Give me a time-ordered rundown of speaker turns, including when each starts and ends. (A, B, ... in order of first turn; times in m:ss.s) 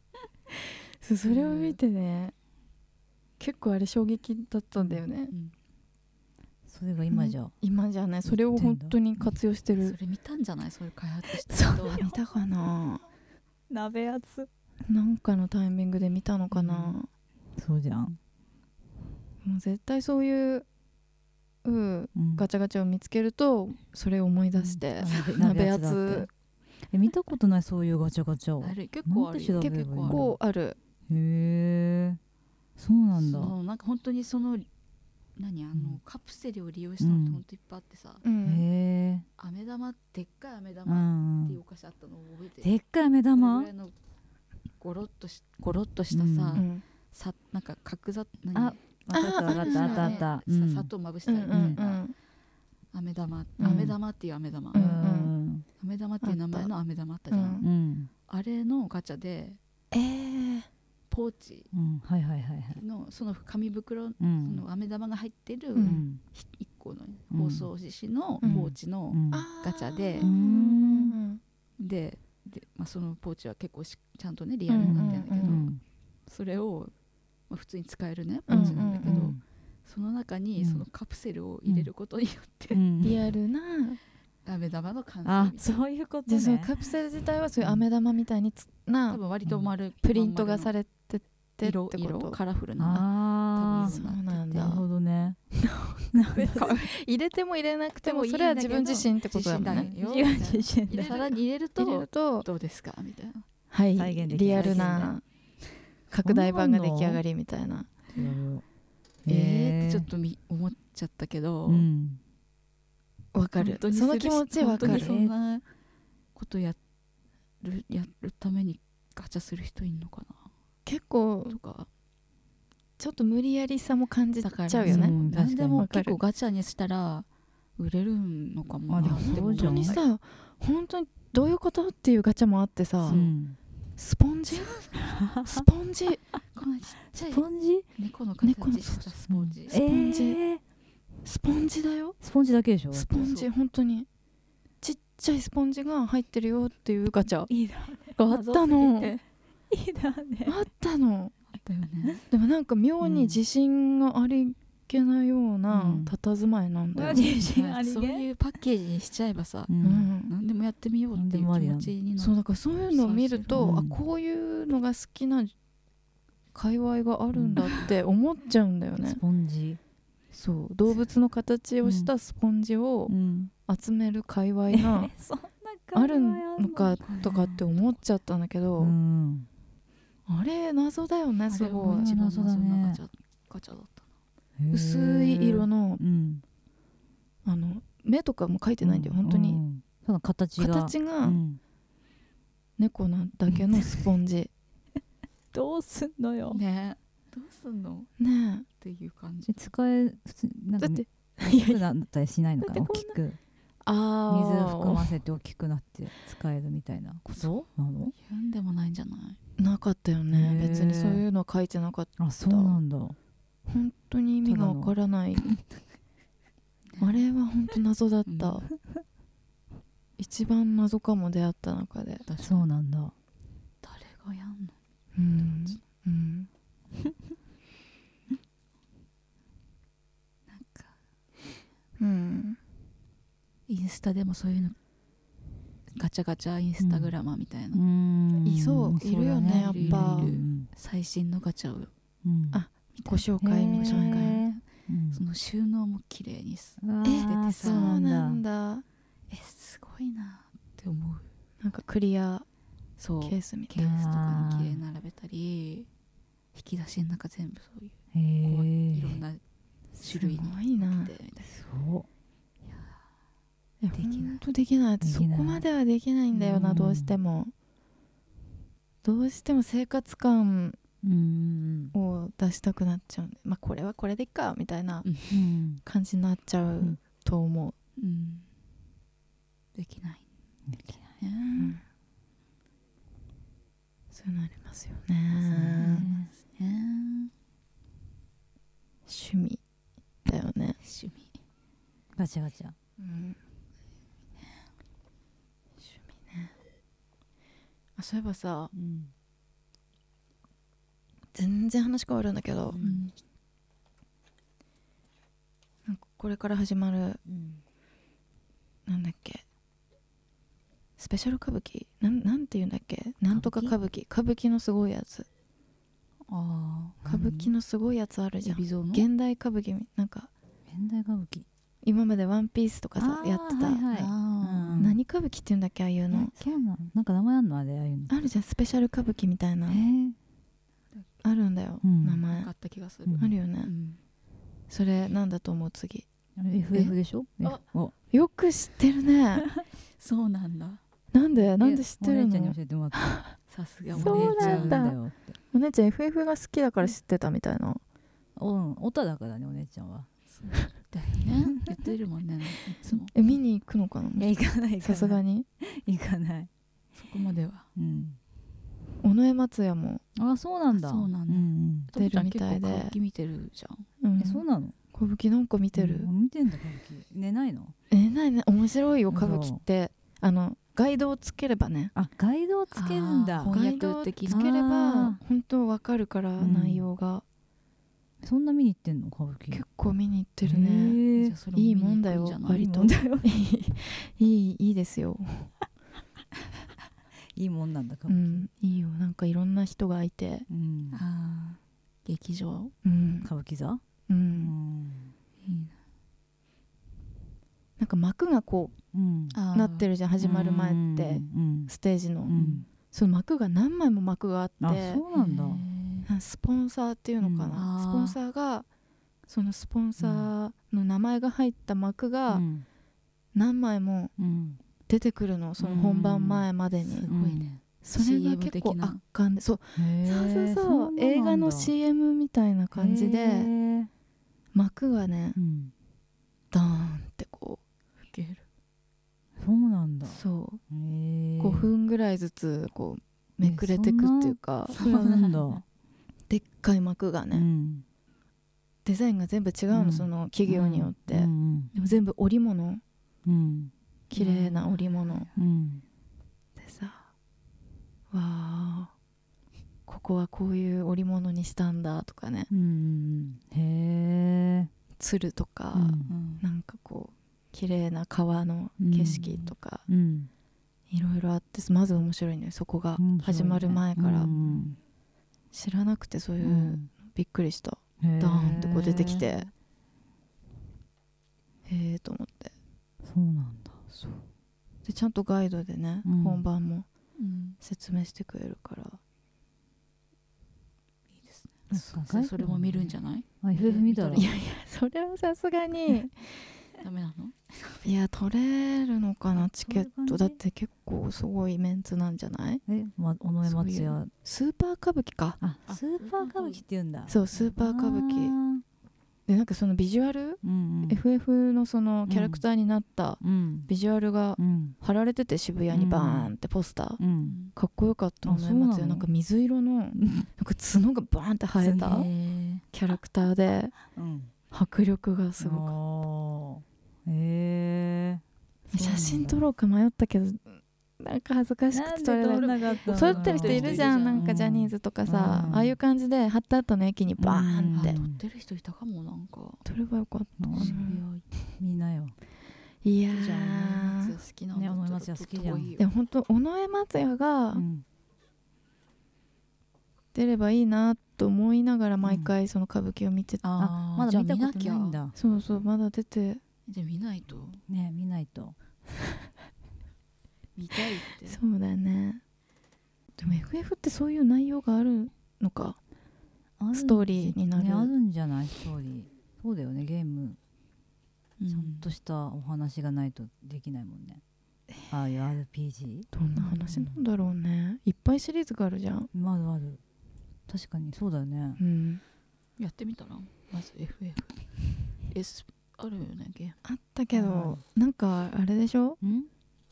0:01.0-0:02.3 A
0:01.2-0:01.8 B
0:03.4-0:05.3 A
0:06.7-0:07.5 C
0:07.1-0:10.0 A
0:08.2-0:09.0 C
0:09.8-0:12.1 B
0:11.5-0:12.1 C
0:11.7-0:13.0 A
0:13.7-0:14.5 C
0:14.9-0:17.1 A
0:16.5-0:17.0 C
0:17.6-0:18.2 C
0:19.4-0:20.7 A
0:21.6-0:26.3 A
0:22.2-0:22.5 C
0:24.6-0:26.3 C
0:26.9-0:30.4 C
0:28.6-0:30.2 B
0:29.6-0:30.8 A
0:31.1-0:32.2 C
0:32.8-0:33.6 C
0:33.2-0:34.7 B
0:35.4-0:38.2 B
0:35.7-0:36.0 C
0:37.0-0:37.4 C
0:38.2-0:38.7 A
0:38.4-0:39.3 C
0:39.4-0:42.8 B
0:40.9-0:41.6 C
0:42.6-0:43.7 C
0:43.3-0:43.9 B
0:44.8-0:48.8 B
0:46.1-0:46.6 C
0:46.6-0:46.8 A
0:48.5-0:50.9 C
0:49.1-0:50.2 A
0:49.4-0:52.0 B
0:51.3-0:52.1 A
0:51.5-0:51.8 C
0:52.9-0:55.0 B
0:53.6-0:53.9 A
0:53.6-0:54.0 C
0:54.7-0:55.3 A
0:54.7-0:55.7 C
0:55.8-0:57.6 B
0:56.2-0:56.7 A
0:57.3-0:57.6 A
0:57.6-0:58.1 C
0:58.3-0:59.6 B
0:59.9-1:00.7 A
1:01.1-1:01.7 B
1:01.7-1:02.8 C
1:02.7-1:10.3 B
1:04.2-1:04.6 C
1:05.8-1:06.0 A
1:05.8-1:06.2 C
1:07.3-1:07.7 C
1:08.4-1:08.7 A
1:08.4-1:09.5 C
1:09.3-1:11.4 A
1:10.2-1:11.2 C
1:11.8-1:15.7 B
1:14.7-1:15.6 A
1:14.8-1:15.8 C
1:16.3-1:16.9 B
1:17.5-1:22.8 B
1:18.5-1:19.3 A
1:18.5-1:19.4 C
1:20.6-1:20.9 C
1:21.7-1:21.9 C
1:22.7-1:23.2 C
1:23.0-1:24.0 A
1:24.4-1:25.8 B
1:25.2-1:26.7 C
1:26.3-1:29.2 A
1:29.1-1:30.7 B
1:29.4-1:29.7 C
1:30.0-1:32.4 A
1:31.6-1:34.8 B
1:32.8-1:34.0 C
1:33.8-1:34.9 A
1:34.6-1:35.4 C
1:35.6-1:39.9 A
1:36.1-1:36.7 C
1:36.4-1:36.9 B
1:38.0-1:43.5 B
1:39.6-1:41.2 C
1:41.0-1:42.5 A
1:43.7-1:45.2 A
1:44.0-1:45.1 C
1:44.4-1:45.1 B
1:46.1-1:47.9 A
1:46.2-1:47.2 C
1:48.1-1:48.6 C
1:49.2-1:50.1 C
1:49.3-1:51.9 B
1:51.7-1:52.2 C
1:53.3-1:55.1 A
1:53.6-1:55.6 B
1:54.8-1:55.3 C
1:56.4-1:56.8 B
1:57.6-2:00.5 B
2:00.9-2:01.6 A
2:01.5-2:01.9 B
2:03.0-2:06.2 A
2:04.4-2:07.3 B
2:04.8-2:05.9 C
2:07.8-2:10.0 B
2:08.9-2:10.0 C
2:09.0-2:13.2 A
2:13.0-2:13.4 B
2:13.1-2:13.6 C
2:14.0-2:16.2 A
2:15.0-2:15.7 C
2:16.5-2:19.8 B
2:17.2-2:17.9 C
2:18.4-2:19.1 A
2:19.3-2:20.6 C
2:19.7-2:20.4 A
2:21.2-2:22.2 A
2:22.2-2:23.1 C
2:22.9-2:24.1 A
2:23.1-2:23.5 B
2:24.8-2:27.5 A
2:27.5-2:28.1 C
2:28.2-2:29.2 A
2:28.3-2:29.2 B
2:29.7-2:30.6 C
2:30.5-2:31.3 A
2:31.5-2:32.2 B
2:32.3-2:37.2 A
2:33.0-2:33.4 C
2:35.7-2:36.1 C
2:37.0-2:38.3 C
2:37.5-2:43.8 B
2:39.7-2:40.1 C
2:39.8-2:40.3 A
2:41.1-2:41.9 C
2:42.2-2:45.5 A
2:43.6-2:44.0 C
2:46.5-2:49.2 A
2:47.3-2:47.8 C
2:49.0-2:49.8 C
2:50.3-2:53.1 A
2:51.8-2:52.1 C
2:53.1-2:53.5 C
2:53.7-2:55.1 A
2:54.7-2:57.3 C
2:55.9-2:59.0 A
2:57.0-2:57.9 B
2:58.8-2:59.5 C
3:00.3-3:02.1 A
3:01.5-3:04.1 B
3:01.8-3:03.0 C
3:04.6-3:06.4 C
3:04.7-3:06.0 A
3:07.4-3:09.6 A
3:08.8-3:11.6 C
3:10.6-3:11.4 A
3:12.8-3:14.5 A
3:15.5-3:16.6 C
3:16.5-3:18.1 B
3:18.2-3:18.7 A
3:18.8-3:19.7 B
3:19.5-3:23.4 C
3:20.8-3:21.8 A
3:22.6-3:23.2 A
3:23.8-3:25.2 A
3:24.3-3:28.1 C
3:27.3-3:27.6 A
3:28.2-3:29.4 B
3:29.6-3:32.8 A
3:30.3-3:31.2 C
3:32.2-3:33.2 C
3:33.7-3:35.5 A
3:34.4-3:34.9 C
3:36.9-3:37.2 B
3:37.0-3:38.7 A
3:38.3-3:38.7 B
3:40.2-3:42.3 A
3:42.3-3:42.7 B
3:42.4-3:43.1 C
3:43.8-3:44.8 B
3:45.2-3:46.5 A
3:45.4-3:45.8 B
3:50.5-3:51.0 B
3:52.0-3:52.6 A
3:53.7-3:54.8 B
3:56.0-3:57.8 B
3:56.8-3:57.1 C
3:57.7-4:00.7 C
3:58.4-4:00.3 A
3:59.4-4:01.9 B
4:02.2-4:02.6 C
4:02.5-4:04.4 A
4:03.0-4:03.2 B
4:03.4-4:05.2 C
4:03.8-4:08.0 B
4:06.8-4:08.4 C
4:07.0-4:08.8 A
4:09.3-4:11.3 B
4:11.6-4:12.5 A
4:13.0-4:15.9 B
4:13.2-4:13.8 A
4:13.8-4:14.8 C
4:16.6-4:19.4 B
4:18.1-4:19.2 C
4:20.0-4:21.5 B
4:20.1-4:21.1 A
4:21.4-4:22.1 C
4:22.7-4:23.0 B
4:23.8-4:27.5 A
4:24.0-4:24.4 B
4:25.0-4:25.6 C
4:26.3-4:27.2 C
4:29.0-4:30.8 A
4:31.0-4:31.9 C
4:31.9-4:35.1 A
4:35.0-4:35.4 B
4:35.3-4:35.8 C
4:35.8-4:37.8 A
4:38.0-4:38.5 B
4:39.7-4:40.3 B
4:40.7-4:41.2 C
4:41.2-4:41.8 B
4:41.5-4:41.8 A
4:44.1-4:46.1 A
4:45.3-4:46.3 C
4:45.8-4:47.3 B
4:49.1-4:49.6 A
4:50.3-4:50.8 A
4:50.8-4:51.3 B
4:52.2-4:52.8 C
4:53.0-4:53.4 A
4:55.9-4:56.5 A
4:58.0-4:58.7 A
4:58.7-4:59.1 C
5:01.3-5:02.8 A
5:02.7-5:03.1 C
5:02.8-5:03.1 B
5:05.9-5:07.2 A
5:07.3-5:07.6 C
5:08.9-5:09.4 A
5:11.0-5:15.3 A
5:13.3-5:13.7 B
5:16.3-5:17.0 B
5:17.0-5:17.5 C
5:17.1-5:20.3 A
5:18.4-5:19.1 B
5:20.7-5:21.5 C
5:21.8-5:23.8 A
5:23.0-5:25.0 C
5:23.9-5:24.9 B
5:24.8-5:26.3 A
5:26.1-5:28.1 C
5:28.1-5:29.8 A
5:29.7-5:30.2 C
5:31.2-5:32.5 A
5:31.8-5:32.2 C
5:32.3-5:34.0 B
5:33.1-5:33.3 C
5:33.2-5:33.7 A
5:34.7-5:36.1 A
5:36.4-5:37.9 C
5:37.4-5:39.5 A
5:40.0-5:40.8 B
5:41.1-5:43.4 A
5:41.4-5:43.2 C
5:43.5-5:44.8 B
5:43.9-5:45.4 C
5:44.0-5:45.0 A
5:45.5-5:47.8 A
5:48.4-5:50.1 C
5:50.3-5:53.1 B
5:53.1-5:55.5 A
5:54.2-5:56.5 C
5:57.0-5:57.7 B
5:57.8-5:58.2 C
5:59.0-6:00.0 A
6:00.2-6:01.9 C
6:00.7-6:03.9 B
6:02.0-6:02.9 A
6:04.0-6:06.1 A
6:04.2-6:04.8 C
6:05.8-6:07.7 C
6:07.9-6:11.9 A
6:09.1-6:09.6 C
6:12.0-6:13.5 C
6:12.7-6:14.4 B
6:13.4-6:17.2 A
6:14.3-6:15.2 C
6:16.4-6:16.9 C
6:18.2-6:19.6 C
6:19.5-6:21.0 A
6:20.4-6:21.4 C
6:21.2-6:22.7 B
6:21.6-6:25.5 A
6:22.5-6:23.3 C
6:27.4-6:28.5 C
6:28.1-6:30.5 A
6:30.5-6:31.0 C
6:30.9-6:32.8 B
6:32.8-6:33.3 A
6:33.2-6:33.8 C
6:34.1-6:34.5 A
6:34.4-6:35.1 C
6:35.4-6:35.8 B
6:37.8-6:38.8 A
6:38.9-6:39.4 C
6:39.3-6:39.9 B
6:39.5-6:42.4 A
6:40.2-6:41.7 C
6:42.3-6:42.7 C
6:42.4-6:42.6 B
6:42.9-6:45.0 A
6:44.6-6:45.6 C
6:45.1-6:46.1 B
6:46.1-6:48.7 A
6:47.2-6:47.6 C
6:47.5-6:48.2 B
6:49.3-6:52.4 A
6:50.0-6:50.3 C
6:52.3-6:52.6 C
6:53.3-6:54.1 A
6:54.2-6:54.6 C
6:54.9-6:57.1 A
6:55.6-6:56.5 C
6:56.8-6:59.0 B
6:57.1-6:57.5 C
6:57.8-7:03.5 A
6:59.8-7:01.7 C
7:02.7-7:03.9 C
7:04.5-7:05.4 A
7:05.4-7:05.7 C
7:06.5-7:07.6 A
7:08.1-7:08.4 B
7:09.4-7:11.7 C
7:10.0-7:10.6 A
7:11.4-7:14.8 A
7:13.4-7:15.6 C
7:14.8-7:15.5 B
7:16.3-7:17.5 A
7:17.3-7:17.8 C
7:18.8-7:22.8 A
7:19.7-7:21.7 C
7:23.2-7:23.7 C
7:24.1-7:25.3 A
7:24.2-7:25.3 B
7:25.3-7:25.8 C
7:26.6-7:27.1 A
7:28.1-7:28.9 A
7:29.9-7:32.5 A
7:32.5-7:34.7 C
7:35.0-7:39.9 A
7:35.7-7:36.1 C
7:36.1-7:36.4 B
7:38.8-7:40.3 C
7:39.2-7:39.4 B
7:40.9-7:44.3 A
7:43.0-7:44.8 C
7:44.3-7:44.7 B
7:45.5-7:49.5 A
7:46.4-7:46.9 C
7:48.0-7:49.3 C
7:51.7-7:52.5 A
7:53.0-7:53.9 C
7:54.8-7:56.9 A
7:56.0-7:56.4 C
7:57.2-7:57.6 B
7:57.6-7:59.0 A
8:01.1-8:04.4 B
8:01.7-8:04.3 C
8:04.1-8:06.3 A
8:06.8-8:07.9 B
8:07.8-8:12.6 A
8:09.3-8:10.4 C
8:12.7-8:14.1 C
8:13.4-8:15.4 A
8:15.4-8:18.6 C
8:15.7-8:16.6 B
8:17.1-8:18.4 A
8:19.3-8:27.0 A
8:20.4-8:21.0 C
8:22.1-8:22.4 C
8:23.2-8:23.7 C
8:24.4-8:24.8 C
8:25.7-8:26.3 C
8:27.0-8:27.4 C
8:27.2-8:27.5 B
8:27.6-8:32.1 A
8:28.2-8:29.1 C
8:30.0-8:30.3 C
8:31.6-8:32.1 C
8:31.8-8:32.6 B
8:32.7-8:33.8 A
8:33.9-8:34.3 C
8:34.5-8:35.8 A
8:35.4-8:38.2 C
8:38.7-8:48.0 A
8:38.7-8:39.4 C
8:41.7-8:45.8 C
8:42.3-8:44.3 B
8:47.2-8:48.2 C
8:47.8-8:49.6 B
8:49.6-8:51.0 A
8:50.4-8:50.8 C
8:50.5-8:51.2 B
8:51.6-8:52.2 C
8:52.8-8:54.2 A
8:53.1-8:55.8 B
8:54.5-8:55.7 C
8:55.8-8:57.6 A
8:57.5-8:57.8 C
9:00.1-9:03.4 A
9:02.0-9:02.3 C
9:03.4-9:05.0 B
9:03.6-9:05.2 C
9:05.2-9:06.4 A
9:06.7-9:07.6 B
9:07.6-9:08.6 C
9:10.6-9:11.4 B
9:11.2-9:12.2 A
9:13.2-9:15.8 A
9:16.6-9:20.4 C
9:16.7-9:17.9 A
9:21.4-9:21.9 B
9:21.5-9:24.2 C
9:24.9-9:26.1 C
9:26.1-9:29.1 A
9:26.7-9:27.0 C
9:29.1-9:29.8 C
9:30.5-9:31.6 C
9:31.6-9:32.0 A
9:32.6-9:36.6 B
9:36.6-9:39.0 A
9:37.1-9:37.6 C
9:39.0-9:39.3 C